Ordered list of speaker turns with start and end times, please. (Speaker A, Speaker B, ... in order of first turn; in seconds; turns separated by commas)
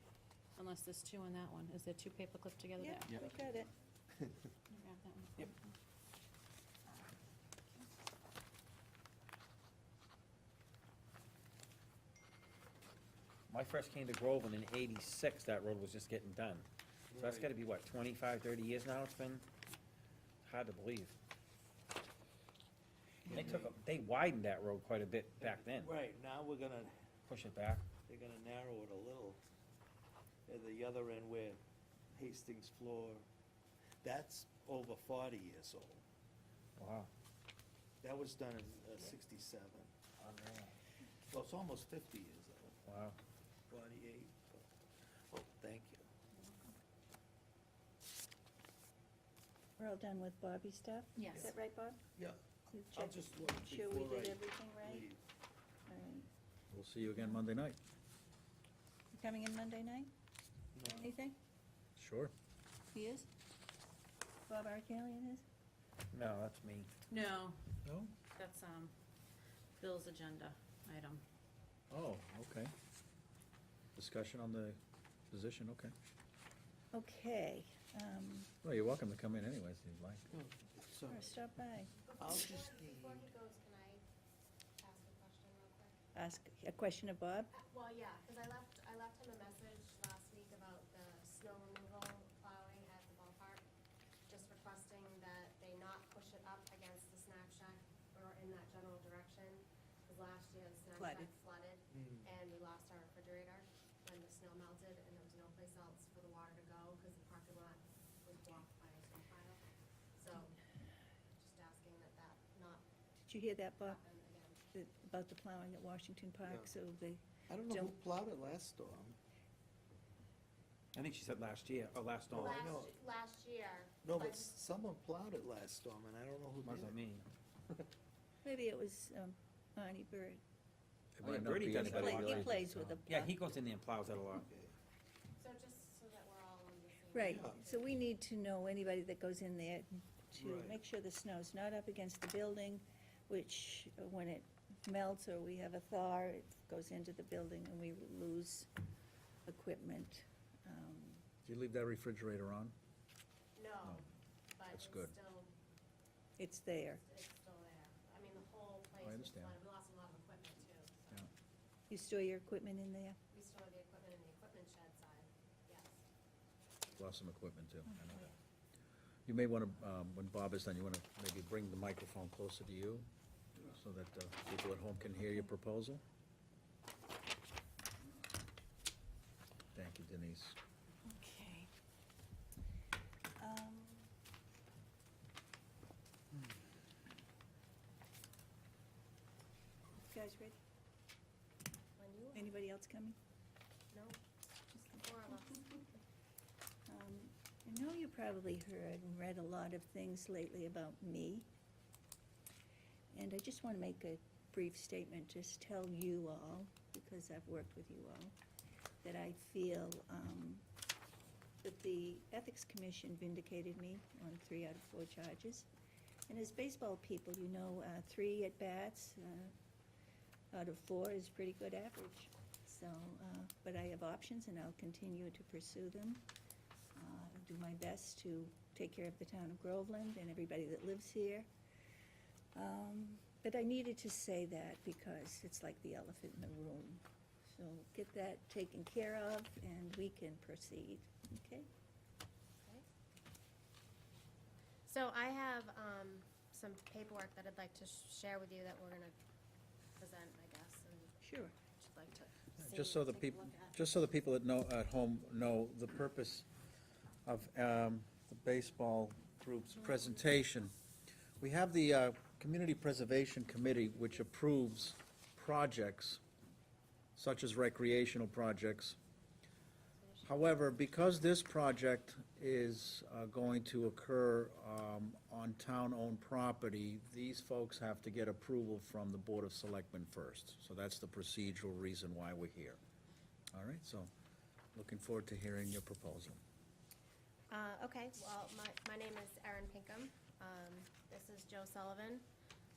Speaker A: 0.6-3.1, Speaker B: 2.8-3.7, Speaker A: 4.7-5.5, Speaker C: 13.5-19.4, Speaker D: 17.1-17.5, Speaker C: 20.4-21.1, Speaker D: 23.2-23.8, Speaker C: 23.3-25.9, Speaker D: 25.4-26.9, Speaker C: 27.3-27.8, Speaker D: 28.1-29.4, Speaker D: 30.5-31.6, Speaker D: 32.1-33.2, Speaker D: 34.0-36.0, Speaker C: 36.8-37.1, Speaker D: 38.0-39.9, Speaker C: 40.2-40.7, Speaker D: 41.3-42.7, Speaker C: 42.9-43.2, Speaker D: 43.7-44.7, Speaker D: 45.3-46.1, Speaker B: 49.8-52.0, Speaker A: 51.1-51.5, Speaker B: 52.7-55.0, Speaker D: 52.9-55.2, Speaker B: 55.9-56.3, Speaker E: 56.7-57.8, Speaker B: 59.1-60.1, Speaker D: 60.7-61.1, Speaker B: 60.8-61.4, Speaker E: 62.0-62.3, Speaker B: 62.9-63.3, Speaker B: 64.5-65.4, Speaker C: 66.1-66.9, Speaker A: 67.1-67.6, Speaker E: 67.8-68.1, Speaker A: 68.3-68.9, Speaker A: 69.8-71.2, Speaker E: 71.9-72.7, Speaker E: 74.0-74.8, Speaker E: 75.3-75.9, Speaker B: 76.9-78.5, Speaker E: 78.6-80.3, Speaker D: 80.3-81.3, Speaker B: 81.1-81.9, Speaker F: 82.0-84.0, Speaker D: 82.2-83.3, Speaker F: 84.8-86.0, Speaker B: 86.1-87.5, Speaker F: 87.5-93.6, Speaker F: 94.3-109.6, Speaker B: 101.0-101.3, Speaker D: 101.9-102.2, Speaker F: 110.2-110.5, Speaker F: 111.4-112.8, Speaker B: 113.3-114.0, Speaker F: 113.8-114.6, Speaker B: 114.7-117.9, Speaker D: 116.5-116.7, Speaker D: 117.5-119.2, Speaker C: 120.9-122.6, Speaker D: 122.3-122.9, Speaker F: 122.3-124.5, Speaker D: 124.0-127.0, Speaker C: 126.6-127.3, Speaker B: 128.4-130.4, Speaker E: 131.2-133.0, Speaker C: 131.2-134.4, Speaker B: 131.7-133.3, Speaker D: 134.3-134.7, Speaker F: 135.4-138.0, Speaker B: 137.1-148.7, Speaker D: 137.2-137.6, Speaker D: 140.3-140.8, Speaker B: 149.4-151.2, Speaker E: 151.4-152.7, Speaker F: 153.6-155.5, Speaker E: 154.7-155.1, Speaker B: 156.4-157.0, Speaker F: 156.8-161.2, Speaker E: 159.0-159.6, Speaker B: 161.9-163.2, Speaker F: 163.3-166.0, Speaker E: 166.9-168.3, Speaker E: 169.2-173.1, Speaker E: 173.6-176.0, Speaker E: 179.7-180.6, Speaker B: 181.1-181.7, Speaker B: 183.4-184.1, Speaker B: 190.0-190.6, Speaker F: 192.0-192.6, Speaker B: 192.3-193.2, Speaker F: 193.9-194.2, Speaker F: 194.8-196.0, Speaker B: 196.9-201.5, Speaker B: 203.1-208.3, Speaker B: 209.0-210.6, Speaker B: 211.6-215.7, Speaker B: 216.3-219.5, Speaker B: 220.5-226.2, Speaker B: 226.9-231.5, Speaker B: 232.5-241.7, Speaker F: 244.8-249.1, Speaker F: 250.0-253.8, Speaker B: 251.2-251.5, Speaker E: 252.6-256.5, Speaker E: 257.2-260.7, Speaker E: 261.4-266.2, Speaker E: 267.1-269.0, Speaker F: 270.0-270.6, Speaker E: 270.2-282.8, Speaker E: 283.5-284.1, Speaker E: 284.7-286.4, Speaker F: 287.5-292.2